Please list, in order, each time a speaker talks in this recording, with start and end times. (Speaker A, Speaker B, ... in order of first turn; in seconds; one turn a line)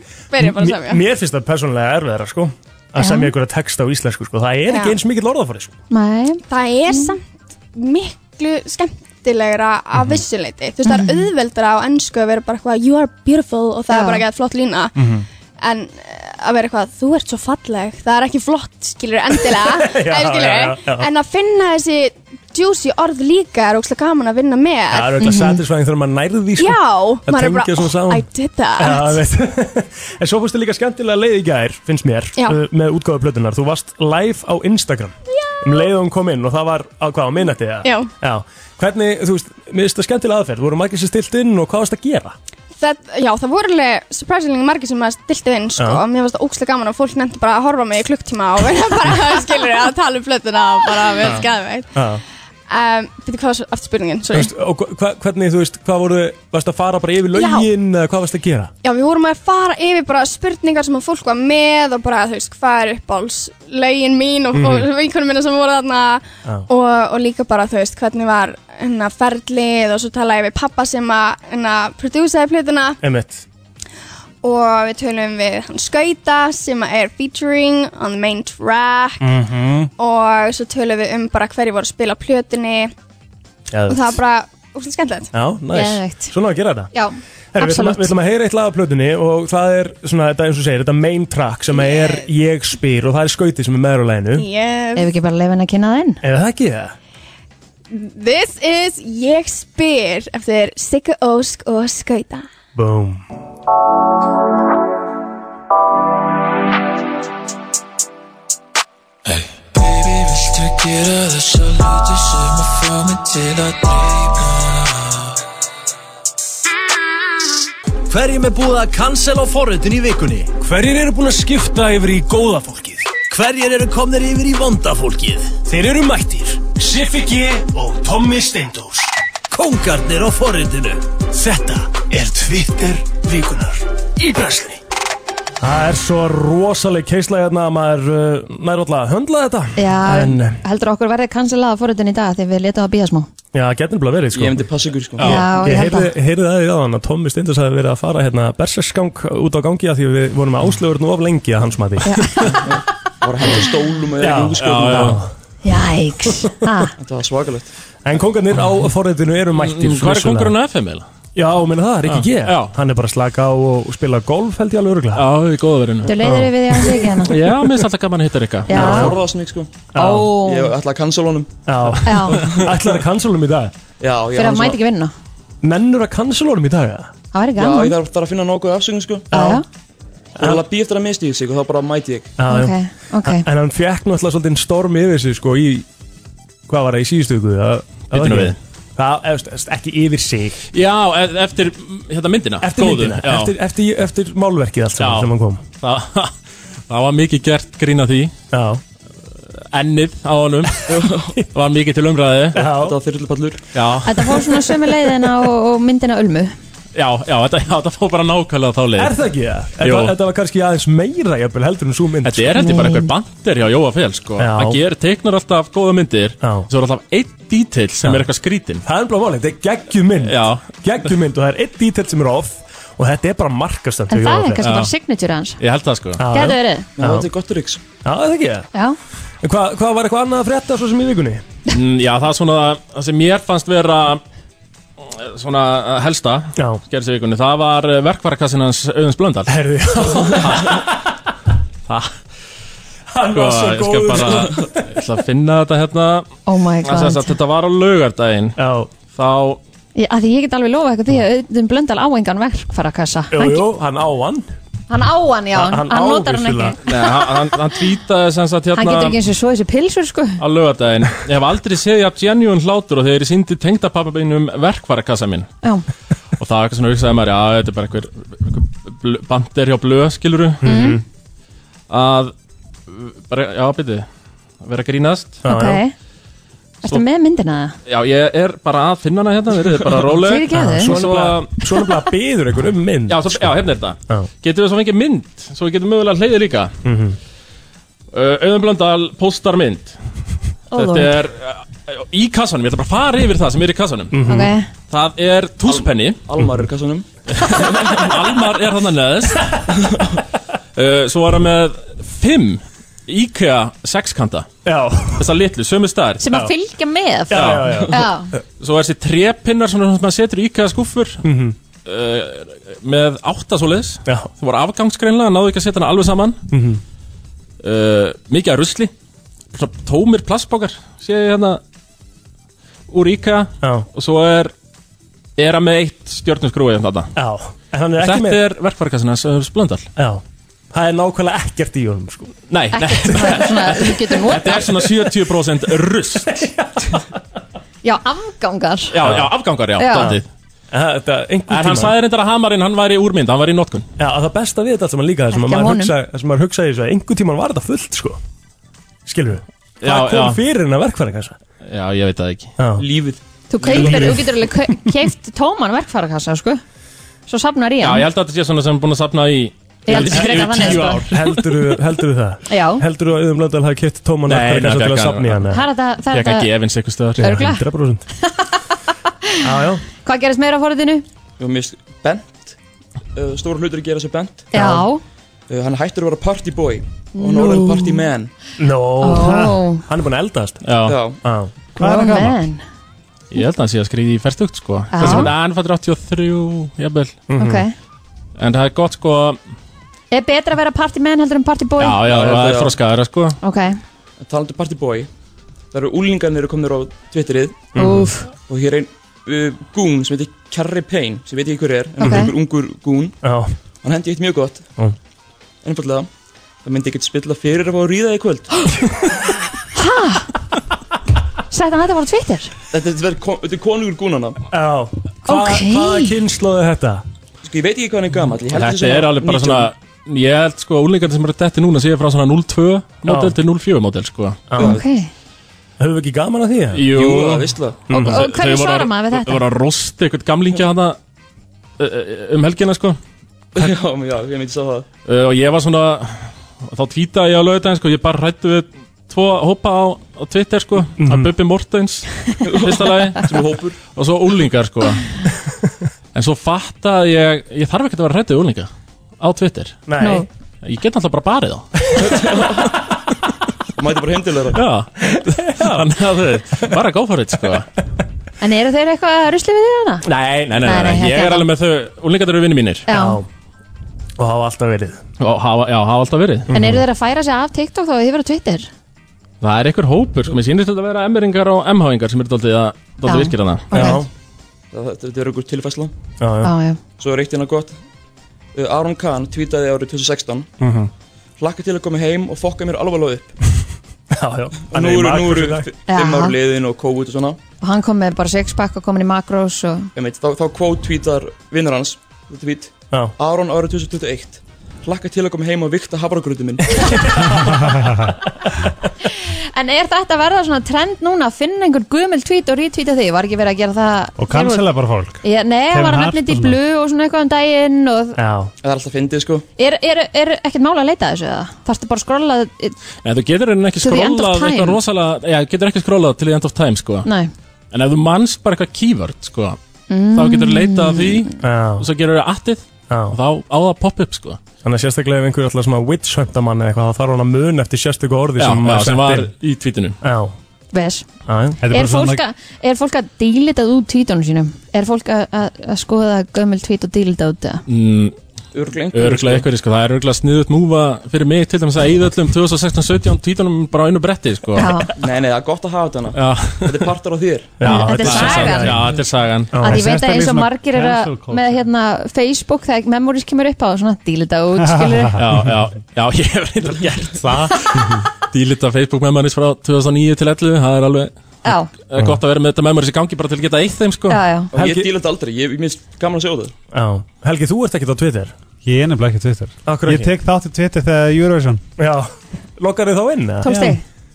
Speaker A: 0.3-1.0
Speaker B: 0.4-5.8
Speaker C: 3.0-3.3
Speaker A: 4.7-5.0
Speaker C: 5.9-7.1
Speaker A: 6.5-14.9
Speaker B: 10.0-10.2
Speaker C: 10.9-11.3
Speaker C: 13.9-14.2
Speaker B: 15.0-15.3
Speaker A: 15.6-25.4
Speaker B: 19.5-21.1
Speaker B: 24.9-42.4
Speaker C: 25.2-25.6
Speaker A: 26.6-29.2
Speaker A: 35.4-35.9
Speaker A: 37.8-38.1
Speaker A: 42.8-51.9
Speaker B: 45.8-46.0
Speaker B: 51.2-52.2
Speaker A: 52.7-54.5
Speaker B: 54.3-58.7
Speaker A: 57.3-57.7
Speaker A: 58.8-73.0
Speaker B: 64.5-64.9
Speaker B: 73.0-73.4
Speaker A: 74.4-79.4
Speaker B: 79.2-79.9
Speaker A: 80.0-82.9
Speaker B: 83.7-84.2
Speaker A: 83.9-85.3
Speaker B: 85.3-86.9
Speaker C: 85.7-86.3
Speaker C: 86.9-88.1
Speaker B: 87.5-94.5
Speaker A: 91.7-92.3
Speaker A: 94.3-95.1
Speaker C: 95.0-96.2
Speaker B: 96.2-96.9
Speaker A: 97.9-102.5
Speaker B: 102.8-103.2
Speaker D: 109.3-115.1
Speaker E: 118.1-120.5
Speaker B: 120.6-123.1
Speaker E: 123.3-125.5
Speaker B: 125.7-126.7
Speaker E: 126.8-134.8
Speaker B: 135.6-140.6
Speaker C: 139.8-143.3
Speaker B: 143.5-144.7
Speaker F: 144.3-145.3
Speaker B: 145.2-152.6
Speaker C: 145.2-146.1
Speaker C: 152.1-152.6
Speaker F: 152.6-155.2
Speaker B: 154.2-155.3
Speaker G: 154.6-155.2
Speaker C: 155.6-156.9
Speaker F: 157.0-157.7
Speaker B: 158.1-160.5
Speaker G: 159.5-161.1
Speaker B: 161.3-165.2
Speaker G: 162.1-162.7
Speaker G: 165.2-166.1
Speaker C: 166.1-167.4
Speaker B: 166.2-167.2
Speaker G: 167.3-168.9
Speaker C: 168.7-169.1
Speaker B: 168.7-169.2
Speaker F: 168.7-169.9
Speaker B: 169.9-170.3
Speaker C: 170.0-170.7
Speaker F: 170.4-172.7
Speaker B: 171.7-173.7
Speaker C: 172.0-172.4
Speaker F: 174.0-174.8
Speaker C: 174.3-175.1
Speaker B: 175.6-177.1
Speaker C: 177.3-177.9
Speaker F: 177.6-179.3
Speaker B: 179.3-179.6
Speaker C: 179.3-179.7
Speaker F: 180.4-182.3
Speaker B: 180.4-180.6
Speaker B: 182.4-185.8
Speaker C: 182.5-183.4
Speaker B: 186.7-190.6
Speaker G: 188.1-188.6
Speaker G: 190.7-193.5
Speaker B: 192.6-195.6
Speaker G: 195.0-196.3
Speaker G: 196.9-198.3
Speaker B: 198.5-198.8
Speaker G: 199.7-200.9
Speaker F: 200.9-201.3
Speaker G: 201.5-202.7
Speaker B: 202.6-203.0
Speaker F: 202.7-203.6
Speaker G: 203.7-204.3
Speaker C: 204.1-206.5
Speaker G: 206.9-209.2
Speaker B: 209.0-212.6
Speaker G: 209.8-210.1
Speaker G: 212.2-218.8
Speaker C: 212.6-213.1
Speaker B: 214.4-214.8
Speaker B: 216.4-216.7
Speaker B: 218.8-224.6
Speaker G: 220.2-220.7
Speaker C: 224.1-225.6
Speaker G: 224.6-224.9
Speaker G: 225.6-226.2
Speaker B: 226.2-227.3
Speaker C: 226.3-226.9
Speaker F: 227.0-227.8
Speaker B: 228.0-228.7
Speaker B: 229.4-231.4
Speaker G: 231.7-234.2
Speaker G: 235.0-240.8
Speaker B: 236.6-236.8
Speaker B: 239.5-241.0
Speaker B: 243.1-244.8
Speaker G: 243.3-246.3
Speaker C: 246.5-247.3
Speaker G: 246.8-248.6
Speaker B: 248.6-248.9
Speaker G: 249.1-249.6
Speaker C: 250.0-253.7
Speaker B: 253.3-254.5
Speaker C: 254.9-257.7
Speaker B: 255.5-256.8
Speaker G: 256.9-259.2
Speaker C: 258.8-260.4
Speaker G: 260.4-265.5
Speaker G: 266.4-270.9
Speaker B: 270.6-271.0
Speaker C: 270.6-271.0
Speaker G: 271.9-272.3
Speaker G: 272.9-274.1
Speaker G: 274.6-275.4
Speaker B: 275.4-275.8
Speaker C: 275.5-275.9
Speaker C: 276.8-277.8
Speaker G: 277.9-281.5
Speaker C: 280.2-280.9
Speaker B: 280.5-283.6
Speaker G: 283.1-286.7
Speaker B: 286.9-287.2
Speaker G: 288.1-290.0
Speaker C: 290.7-291.2
Speaker G: 290.8-294.2
Speaker B: 294.1-294.5
Speaker C: 294.3-294.7
Speaker G: 294.9-296.2
Speaker F: 295.6-298.1
Speaker G: 297.3-299.6
Speaker G: 300.8-304.5
Speaker B: 304.6-305.3
Speaker G: 305.2-306.3
Speaker C: 306.2-308.3
Speaker B: 307.3-308.1
Speaker G: 307.3-307.9
Speaker G: 308.6-311.2
Speaker B: 311.2-311.6
Speaker G: 311.9-316.4
Speaker B: 316.5-316.8
Speaker G: 317.6-318.9
Speaker G: 319.5-321.6
Speaker G: 322.9-324.5
Speaker B: 323.6-323.9
Speaker G: 325.4-327.1
Speaker B: 327.2-328.4
Speaker G: 328.0-329.9
Speaker B: 330.0-330.2
Speaker B: 330.7-332.4
Speaker G: 332.5-336.4
Speaker C: 332.7-334.9
Speaker B: 333.2-333.8
Speaker B: 336.4-337.0
Speaker C: 337.8-339.0
Speaker G: 338.9-340.3
Speaker B: 339.0-339.3
Speaker C: 339.8-340.2
Speaker B: 340.7-341.9
Speaker G: 341.5-343.9
Speaker B: 344.0-348.2
Speaker C: 345.3-345.9
Speaker B: 349.1-351.4
Speaker G: 349.8-350.4
Speaker G: 351.7-352.5
Speaker B: 352.6-352.9
Speaker F: 352.8-354.0
Speaker C: 353.5-356.6
Speaker B: 353.6-354.4
Speaker C: 357.3-358.1
Speaker G: 357.8-361.6
Speaker C: 359.9-361.1
Speaker B: 359.9-365.6
Speaker C: 362.5-362.8
Speaker G: 364.3-365.5
Speaker C: 365.5-366.5
Speaker G: 366.1-367.5
Speaker C: 367.2-367.6
Speaker B: 367.2-368.1
Speaker C: 368.2-368.6
Speaker B: 369.4-369.8
Speaker C: 370.0-371.0
Speaker F: 371.4-372.5
Speaker F: 373.1-374.5
Speaker B: 374.5-374.9
Speaker C: 374.5-375.0
Speaker F: 375.5-378.3
Speaker C: 377.1-378.0
Speaker B: 378.6-380.6
Speaker C: 379.0-379.8
Speaker H: 379.2-379.5
Speaker G: 380.6-381.0
Speaker F: 380.9-381.2
Speaker B: 381.2-381.5
Speaker H: 381.8-382.5
Speaker C: 381.8-382.6
Speaker G: 383.3-387.2
Speaker C: 384.9-385.3
Speaker B: 385.0-385.3
Speaker B: 387.3-387.6
Speaker C: 387.4-387.7
Speaker G: 388.4-389.4
Speaker C: 390.1-392.0
Speaker G: 391.8-393.4
Speaker F: 392.0-392.8
Speaker C: 393.4-393.8
Speaker F: 394.2-395.1
Speaker F: 395.7-397.7
Speaker B: 397.8-398.1
Speaker C: 397.8-398.3
Speaker F: 398.4-403.2
Speaker C: 402.0-402.3
Speaker B: 403.2-403.5
Speaker F: 403.8-404.7
Speaker F: 405.6-406.1
Speaker F: 406.6-409.0
Speaker C: 409.8-410.3
Speaker C: 411.5-412.5
Speaker F: 412.7-414.4
Speaker B: 414.5-417.0
Speaker C: 415.3-416.2
Speaker F: 417.4-419.7
Speaker G: 418.5-424.4
Speaker B: 423.1-423.4
Speaker B: 424.5-424.8
Speaker C: 424.6-425.1
Speaker F: 424.6-424.8
Speaker B: 425.8-426.8
Speaker G: 426.7-431.0
Speaker F: 426.9-427.9
Speaker B: 427.9-428.2
Speaker C: 427.9-429.4
Speaker G: 431.8-433.0
Speaker F: 433.6-434.9
Speaker G: 435.1-443.3
Speaker B: 441.0-441.3
Speaker F: 442.4-443.8
Speaker G: 443.9-445.1
Speaker G: 446.1-449.8
Speaker B: 449.9-450.3
Speaker C: 450.0-450.3
Speaker G: 450.6-452.0
Speaker F: 452.0-452.9
Speaker F: 453.8-454.6
Speaker G: 454.5-454.9
Speaker B: 455.0-456.5
Speaker G: 455.5-457.7
Speaker C: 458.4-460.1
Speaker G: 460.1-462.9
Speaker C: 460.6-461.5
Speaker C: 462.9-463.2
Speaker B: 462.9-463.3
Speaker B: 464.2-465.0
Speaker G: 465.2-466.5
Speaker B: 466.5-466.9
Speaker C: 466.5-468.7
Speaker G: 469.4-473.9
Speaker C: 473.1-474.0
Speaker B: 473.7-474.1
Speaker F: 474.7-475.9
Speaker B: 476.2-476.5
Speaker C: 476.4-476.8
Speaker F: 477.0-477.8
Speaker F: 478.5-480.5
Speaker B: 480.6-480.9
Speaker F: 481.4-483.4
Speaker B: 484.1-485.7
Speaker F: 484.7-487.4
Speaker C: 485.9-486.4
Speaker C: 487.6-489.9
Speaker F: 490.0-497.3
Speaker B: 496.8-497.5
Speaker H: 497.7-498.1
Speaker C: 499.1-504.7
Speaker H: 504.2-506.6
Speaker C: 505.2-508.2
Speaker B: 508.2-508.5
Speaker F: 508.6-509.4
Speaker C: 509.6-512.8
Speaker G: 513.0-517.1
Speaker C: 513.8-514.8
Speaker C: 517.0-517.3
Speaker G: 517.7-519.6
Speaker C: 519.9-521.3
Speaker G: 520.1-524.4
Speaker B: 521.4-521.9
Speaker B: 522.9-523.2
Speaker B: 524.6-529.3
Speaker G: 528.4-530.0
Speaker B: 530.0-530.3
Speaker C: 530.7-531.1
Speaker B: 531.3-531.6
Speaker H: 531.6-532.2
Speaker C: 531.7-537.6
Speaker G: 537.7-538.2
Speaker F: 538.5-539.5
Speaker G: 538.9-544.8
Speaker C: 544.6-544.9
Speaker F: 545.0-547.6
Speaker G: 546.1-546.9
Speaker B: 547.6-548.9
Speaker G: 547.6-549.6
Speaker C: 547.6-548.9
Speaker B: 549.5-549.8
Speaker H: 549.6-551.6
Speaker C: 549.6-555.2
Speaker H: 554.6-555.3
Speaker G: 555.2-557.2
Speaker B: 556.8-557.6
Speaker G: 558.3-561.1
Speaker C: 561.4-561.7
Speaker G: 561.9-564.2
Speaker C: 564.1-564.5
Speaker F: 564.5-566.5
Speaker B: 564.5-564.9
Speaker B: 566.7-568.3
Speaker H: 568.6-571.6
Speaker B: 569.7-570.1
Speaker B: 571.8-573.5
Speaker C: 573.4-573.8
Speaker H: 573.5-573.8